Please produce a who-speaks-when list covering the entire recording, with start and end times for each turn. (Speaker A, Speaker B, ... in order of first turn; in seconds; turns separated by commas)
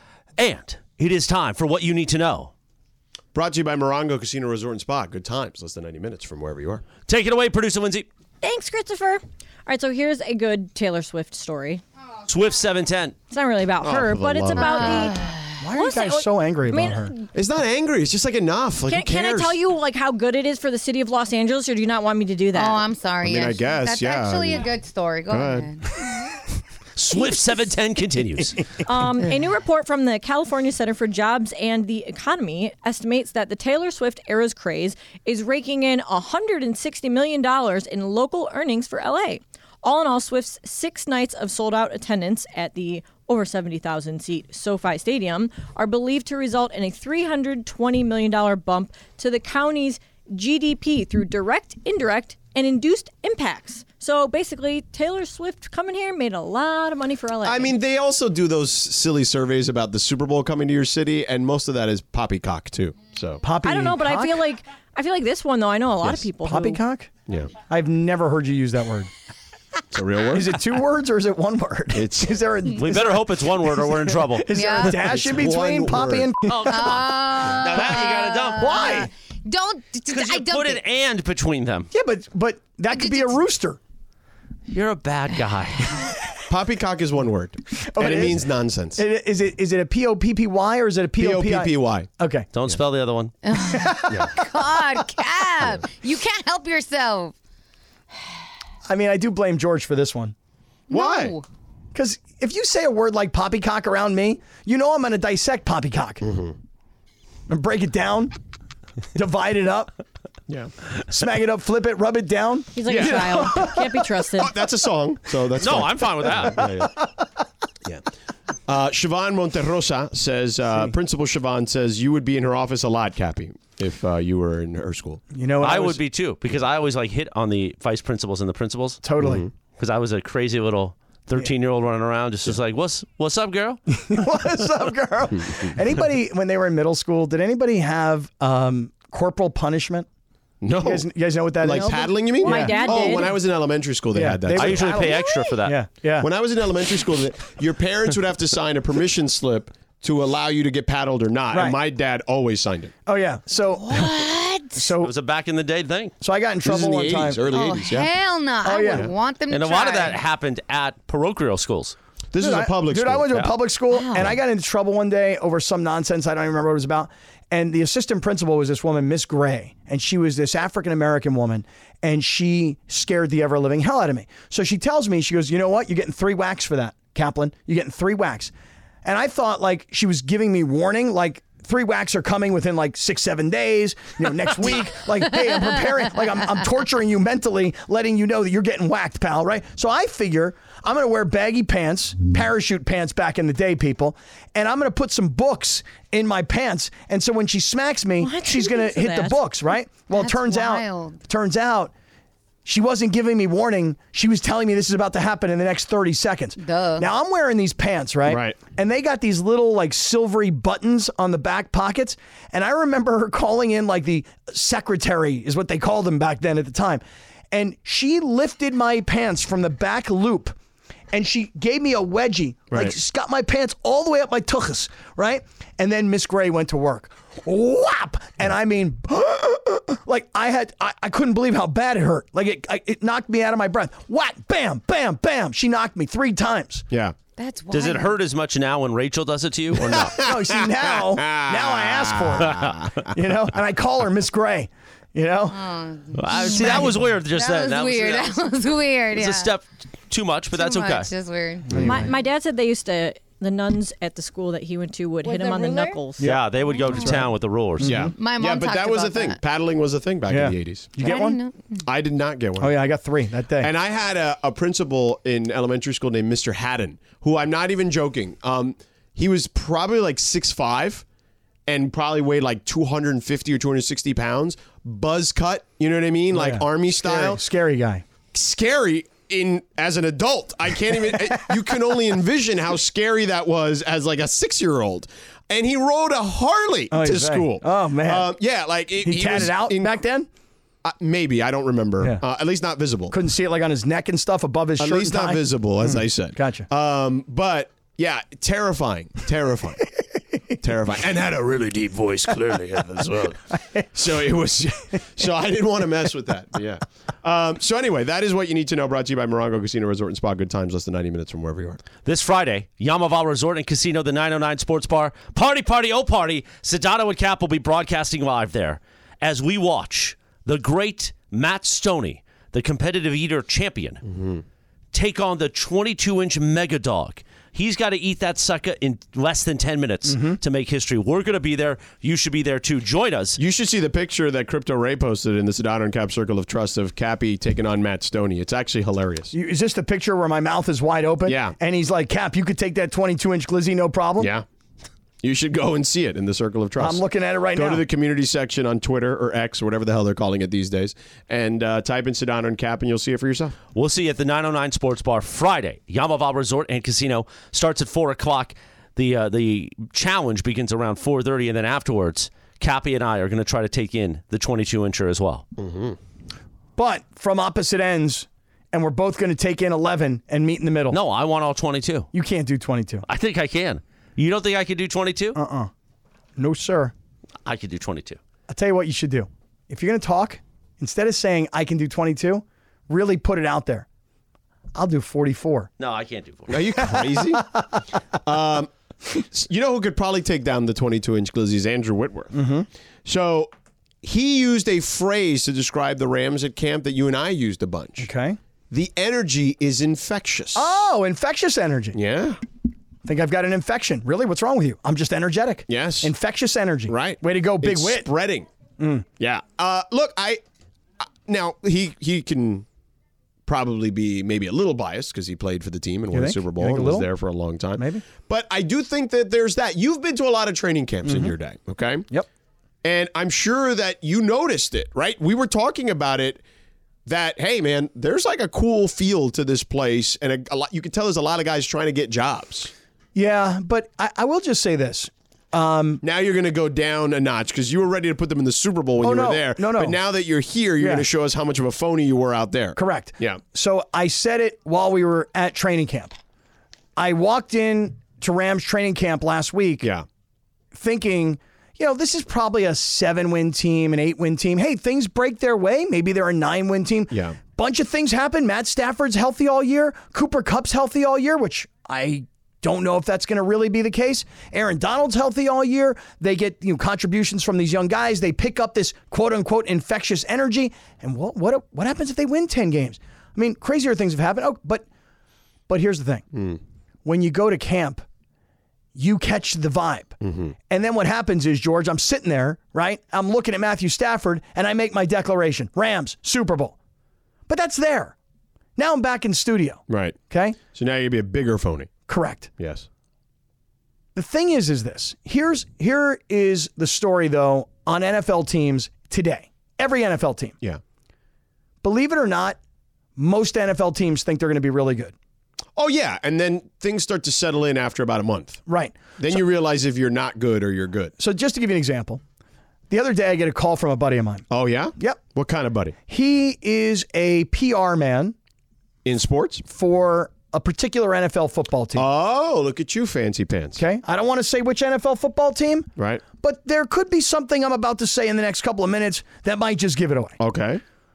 Speaker A: 0.4-2.5, Speaker B: 3.3-6.8, Speaker A: 7.1-8.1, Speaker C: 8.4-11.8, Speaker A: 12.3-13.2, Speaker C: 13.3-17.3, Speaker B: 13.8-15.1, Speaker D: 14.6-15.5, Speaker E: 15.6-17.1, Speaker B: 17.3-19.6, Speaker C: 18.9-22.9, Speaker D: 22.5-25.9, Speaker B: 23.2-24.7, Speaker B: 25.3-25.7, Speaker A: 27.0-28.7, Speaker C: 27.1-27.4, Speaker C: 28.8-57.7, Speaker B: 57.4-63.4, Speaker E: 63.4-64.4, Speaker C: 63.6-66.8, Speaker E: 66.0-69.1, Speaker B: 69.9-70.6, Speaker E: 70.3-73.2, Speaker B: 71.9-72.4, Speaker A: 72.7-74.7, Speaker E: 73.8-76.9, Speaker D: 74.5-75.1, Speaker B: 74.9-76.3, Speaker A: 76.5-78.9, Speaker D: 76.6-80.8, Speaker E: 77.7-79.1, Speaker A: 80.1-81.9, Speaker E: 81.9-83.8, Speaker D: 82.9-83.4, Speaker A: 84.7-86.1, Speaker B: 86.5-89.0, Speaker E: 87.8-92.5, Speaker B: 91.2-92.1, Speaker A: 92.5-93.3, Speaker D: 93.4-97.3, Speaker E: 93.6-94.4, Speaker B: 94.1-94.4, Speaker E: 98.9-100.3, Speaker D: 100.9-101.4, Speaker B: 100.9-101.3, Speaker E: 101.9-106.2, Speaker B: 106.2-106.6, Speaker E: 107.5-108.3, Speaker E: 109.2-109.9, Speaker B: 110.5-110.7, Speaker E: 111.1-113.8, Speaker C: 112.7-114.5, Speaker B: 112.9-116.9, Speaker A: 115.6-116.7, Speaker E: 116.6-117.1, Speaker B: 118.7-125.2, Speaker E: 125.3-126.0, Speaker A: 125.6-129.0, Speaker E: 129.0-129.4, Speaker B: 129.2-129.5, Speaker A: 129.8-133.8, Speaker E: 134.0-140.1, Speaker B: 140.6-141.1, Speaker E: 140.8-143.3, Speaker B: 141.6-145.2, Speaker C: 141.7-143.4, Speaker E: 144.1-146.3, Speaker A: 144.6-145.8, Speaker B: 146.2-152.9, Speaker E: 151.5-151.8, Speaker E: 153.1-154.1, Speaker D: 153.8-154.8, Speaker E: 154.7-155.1, Speaker A: 155.0-156.2, Speaker E: 156.2-157.4, Speaker B: 156.7-158.1, Speaker D: 157.5-160.2, Speaker E: 158.6-159.1, Speaker A: 159.5-162.0, Speaker B: 162.3-163.3, Speaker E: 162.4-178.5, Speaker D: 163.9-164.3, Speaker E: 179.0-201.9, Speaker C: 198.2-199.6, Speaker D: 200.1-201.2, Speaker E: 202.6-220.6, Speaker D: 206.6-207.1, Speaker B: 208.2-208.6, Speaker E: 221.1-236.9, Speaker B: 222.7-222.9, Speaker D: 237.4-238.2, Speaker A: 237.7-240.2, Speaker B: 239.8-243.1, Speaker E: 240.2-245.6, Speaker D: 245.5-249.5, Speaker A: 246.1-248.4, Speaker A: 249.1-251.1, Speaker D: 250.5-251.9, Speaker B: 251.7-252.1, Speaker C: 251.8-256.3, Speaker D: 255.2-256.1, Speaker E: 256.2-257.3, Speaker A: 256.2-257.9, Speaker D: 256.7-257.2, Speaker E: 257.8-258.1, Speaker B: 257.8-261.0, Speaker D: 258.1-259.4, Speaker E: 260.3-261.4, Speaker D: 261.0-261.9, Speaker B: 261.9-262.8, Speaker E: 262.6-263.7, Speaker B: 263.6-271.0, Speaker B: 271.7-277.4, Speaker E: 276.3-278.0, Speaker B: 278.3-289.9, Speaker E: 286.9-288.3, Speaker E: 289.0-290.3, Speaker B: 290.8-293.1, Speaker E: 293.1-296.7, Speaker B: 294.8-299.9, Speaker B: 300.6-301.7, Speaker A: 301.6-303.4, Speaker E: 303.5-303.9, Speaker B: 303.9-311.8, Speaker A: 312.0-324.0, Speaker B: 324.1-324.4, Speaker A: 324.9-333.4, Speaker E: 330.1-330.4, Speaker B: 333.4-339.3, Speaker E: 339.3-344.3, Speaker B: 341.2-341.6, Speaker B: 344.2-344.4, Speaker B: 345.2-353.6, Speaker E: 346.8-347.8, Speaker A: 353.8-365.4, Speaker B: 365.6-366.0, Speaker E: 366.8-371.0, Speaker A: 370.9-372.1, Speaker E: 372.1-373.1, Speaker A: 373.1-375.4, Speaker E: 375.4-375.7, Speaker E: 376.4-376.9, Speaker A: 377.4-378.2, Speaker E: 378.5-383.9, Speaker E: 384.8-385.7, Speaker A: 385.8-386.8, Speaker B: 386.5-387.6, Speaker B: 388.2-392.4, Speaker E: 392.3-392.7, Speaker B: 393.1-393.5, Speaker B: 394.0-398.1, Speaker E: 398.0-398.4, Speaker B: 398.7-400.8, Speaker E: 400.6-402.0, Speaker B: 401.9-402.4, Speaker E: 403.1-408.1, Speaker B: 405.7-406.1, Speaker B: 406.9-408.5, Speaker E: 408.8-409.1, Speaker B: 409.2-410.4, Speaker B: 411.0-412.6, Speaker B: 413.4-422.1, Speaker E: 416.1-417.1, Speaker E: 417.8-418.0, Speaker E: 421.1-421.3, Speaker B: 422.8-426.4, Speaker B: 427.1-432.7, Speaker E: 433.1-436.0, Speaker B: 436.0-443.4, Speaker E: 439.0-440.0, Speaker E: 440.8-441.1, Speaker E: 442.8-446.1, Speaker E: 447.0-449.9, Speaker E: 450.7-474.9, Speaker B: 457.1-457.4, Speaker E: 475.7-476.3, Speaker B: 476.3-476.6, Speaker E: 477.1-478.1, Speaker E: 478.9-486.8, Speaker B: 480.2-480.6, Speaker E: 487.5-488.1, Speaker E: 488.8-490.6, Speaker B: 489.9-490.2, Speaker B: 490.7-491.9, Speaker E: 492.1-492.5, Speaker B: 492.6-492.9, Speaker E: 494.1-500.6, Speaker E: 501.8-502.6, Speaker E: 503.2-505.1, Speaker B: 505.8-508.6, Speaker E: 508.7-509.4, Speaker B: 509.2-511.1, Speaker E: 511.2-512.2, Speaker E: 512.9-515.2, Speaker B: 514.5-516.0, Speaker E: 516.1-518.3, Speaker B: 519.0-519.6, Speaker E: 519.7-522.0, Speaker B: 521.9-523.8, Speaker E: 523.8-530.4, Speaker B: 526.0-526.2, Speaker B: 530.4-530.8